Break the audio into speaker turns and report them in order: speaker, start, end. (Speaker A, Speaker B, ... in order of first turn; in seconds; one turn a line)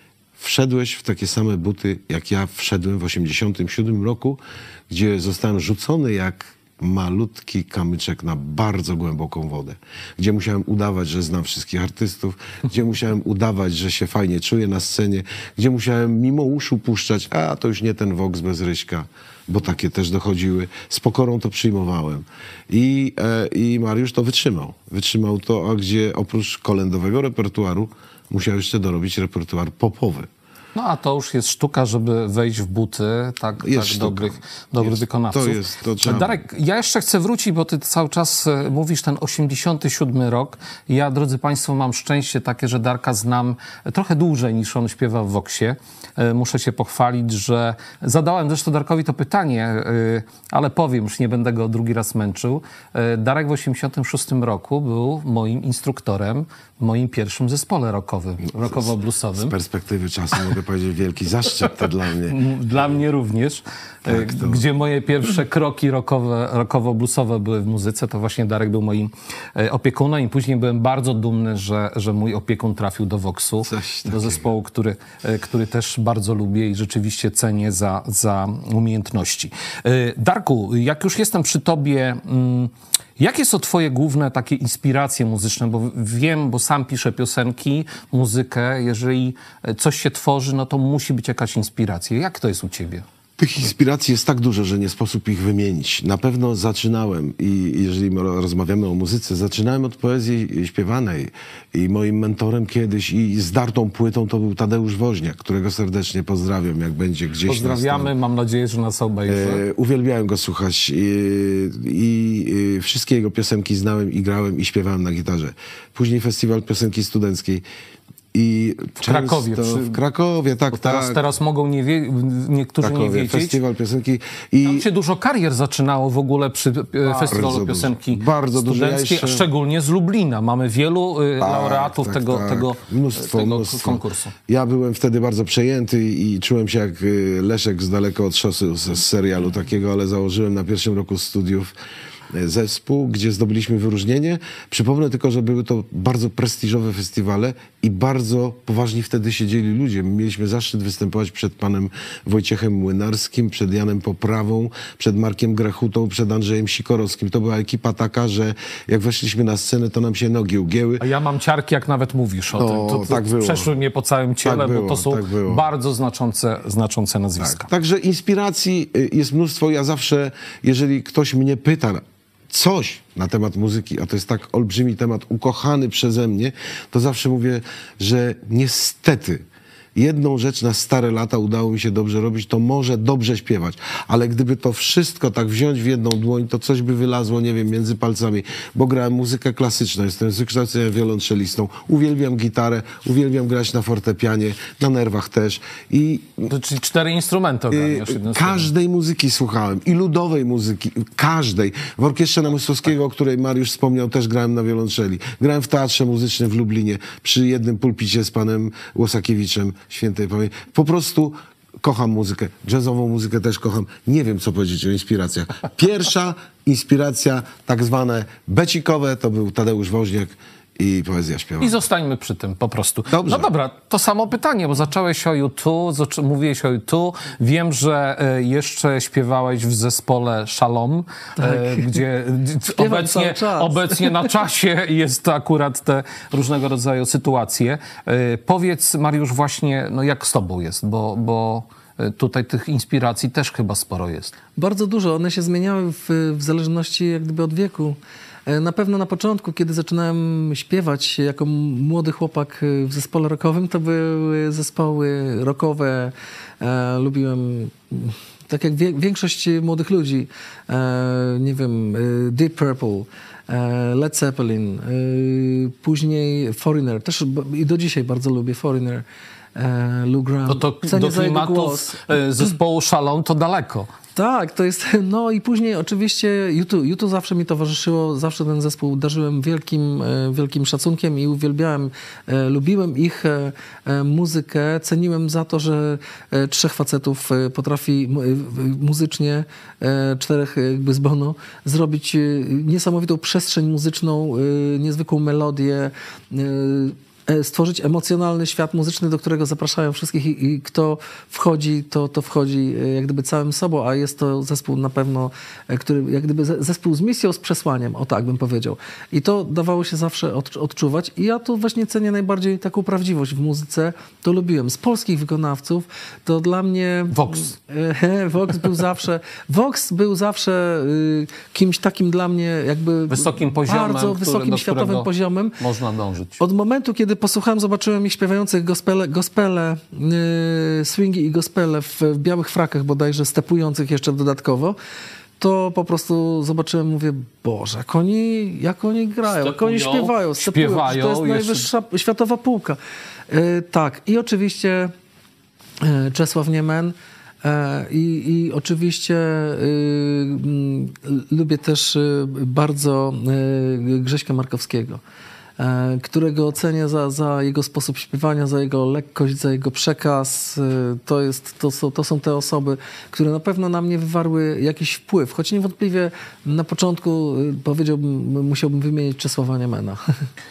Speaker A: 0.4-30.3
Speaker B: 30.8-59.5
Speaker A: 33.6-36.4
Speaker A: 58.6-62.4
Speaker B: 62.3-93.0
Speaker A: 64.1-64.6
Speaker A: 73.6-74.4
Speaker A: 93.4-108.1
Speaker B: 107.5-109.6
Speaker A: 109.3-117.7
Speaker A: 118.3-121.2
Speaker B: 119.0-120.0
Speaker B: 120.7-123.6
Speaker A: 122.8-124.9
Speaker B: 124.7-134.3
Speaker A: 127.1-129.5
Speaker A: 131.4-141.7
Speaker A: 142.3-161.1
Speaker B: 161.0-167.7
Speaker A: 162.6-163.7
Speaker A: 164.4-165.7
Speaker A: 167.4-196.5
Speaker B: 196.5-198.7
Speaker A: 197.7-221.8
Speaker B: 221.6-244.3
Speaker A: 223.1-223.5
Speaker C: 231.4-232.0
Speaker C: 232.7-234.3
Speaker C: 244.6-269.1
Speaker C: 269.6-272.1
Speaker B: 270.5-273.9
Speaker C: 274.2-325.6
Speaker B: 317.1-317.5
Speaker B: 323.1-326.4
Speaker C: 326.4-334.8
Speaker C: 335.4-342.8
Speaker B: 339.3-341.7
Speaker C: 343.3-344.9
Speaker C: 345.8-355.0
Speaker C: 355.6-370.0